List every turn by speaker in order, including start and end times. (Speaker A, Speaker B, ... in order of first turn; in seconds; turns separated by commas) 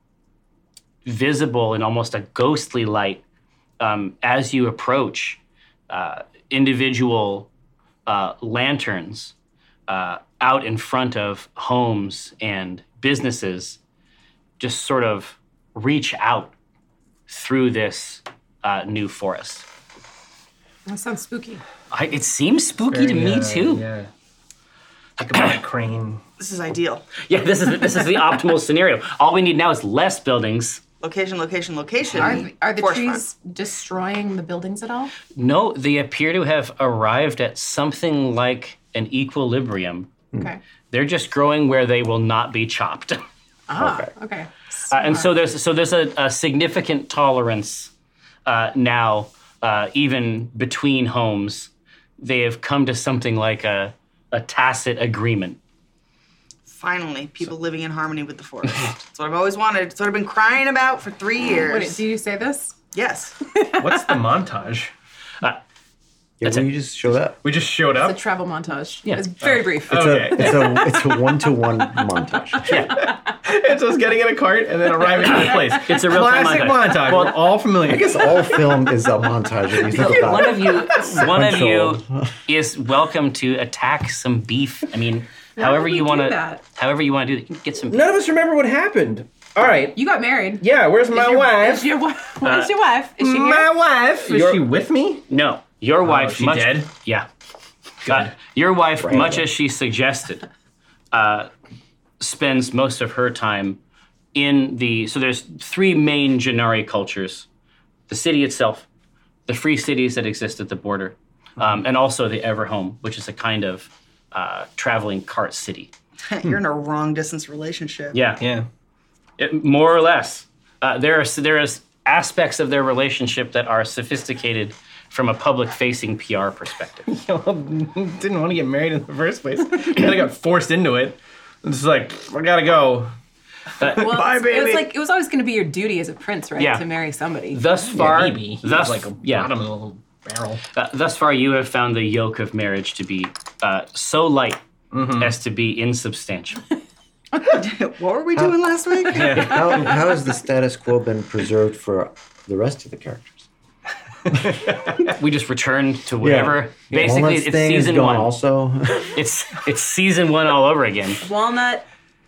Speaker A: 1.1-3.2, Speaker A: 3.8-7.5, Speaker A: 8.1-9.3, Speaker A: 9.9-13.8, Speaker A: 14.6-16.5, Speaker A: 17.3-19.6, Speaker B: 20.9-21.6, Speaker A: 21.9-23.9, Speaker C: 22.9-24.1, Speaker C: 25.2-26.2, Speaker D: 26.4-27.1, Speaker A: 27.2-30.8, Speaker D: 31.0-33.2, Speaker B: 32.1-35.1, Speaker A: 35.3-40.1, Speaker A: 40.9-43.2, Speaker B: 43.7-45.3, Speaker E: 43.8-44.1, Speaker A: 44.9-47.9, Speaker A: 48.5-55.6, Speaker D: 56.7-62.0, Speaker B: 61.4-62.8, Speaker D: 62.9-63.4, Speaker B: 63.5-64.1, Speaker C: 63.8-64.9, Speaker E: 66.4-67.4, Speaker C: 67.4-68.2, Speaker B: 67.9-70.9, Speaker A: 69.1-69.3, Speaker C: 69.4-70.8, Speaker E: 69.9-72.7, Speaker A: 72.7-73.0, Speaker C: 72.8-78.6, Speaker A: 75.7-77.6, Speaker E: 77.8-82.3, Speaker A: 79.9-88.0, Speaker B: 85.6-86.6, Speaker C: 87.9-90.0, Speaker B: 89.9-94.6, Speaker C: 90.6-91.9, Speaker A: 92.4-92.7, Speaker C: 93.2-95.2, Speaker A: 95.3-97.3, Speaker C: 96.0-96.9, Speaker C: 98.1-98.3, Speaker A: 98.1-100.4, Speaker E: 99.0-99.5, Speaker A: 101.1-101.5, Speaker A: 102.2-103.8, Speaker A: 104.3-107.5, Speaker A: 108.1-108.9, Speaker A: 109.5-115.9, Speaker D: 116.2-118.2, Speaker A: 118.1-118.4, Speaker C: 118.4-118.7, Speaker A: 119.4-127.1, Speaker C: 127.1-133.1, Speaker A: 133.8-134.2, Speaker C: 133.8-134.8, Speaker B: 134.0-137.6, Speaker A: 136.6-136.9, Speaker A: 137.5-139.5, Speaker C: 137.9-140.6, Speaker A: 140.7-144.6, Speaker C: 144.9-145.3, Speaker A: 145.2-146.6, Speaker D: 147.4-149.6, Speaker C: 149.1-149.7, Speaker E: 149.2-153.5, Speaker B: 149.7-150.0, Speaker C: 154.3-155.1, Speaker A: 155.0-158.3, Speaker E: 156.2-159.1, Speaker A: 159.1-161.2, Speaker B: 161.2-161.9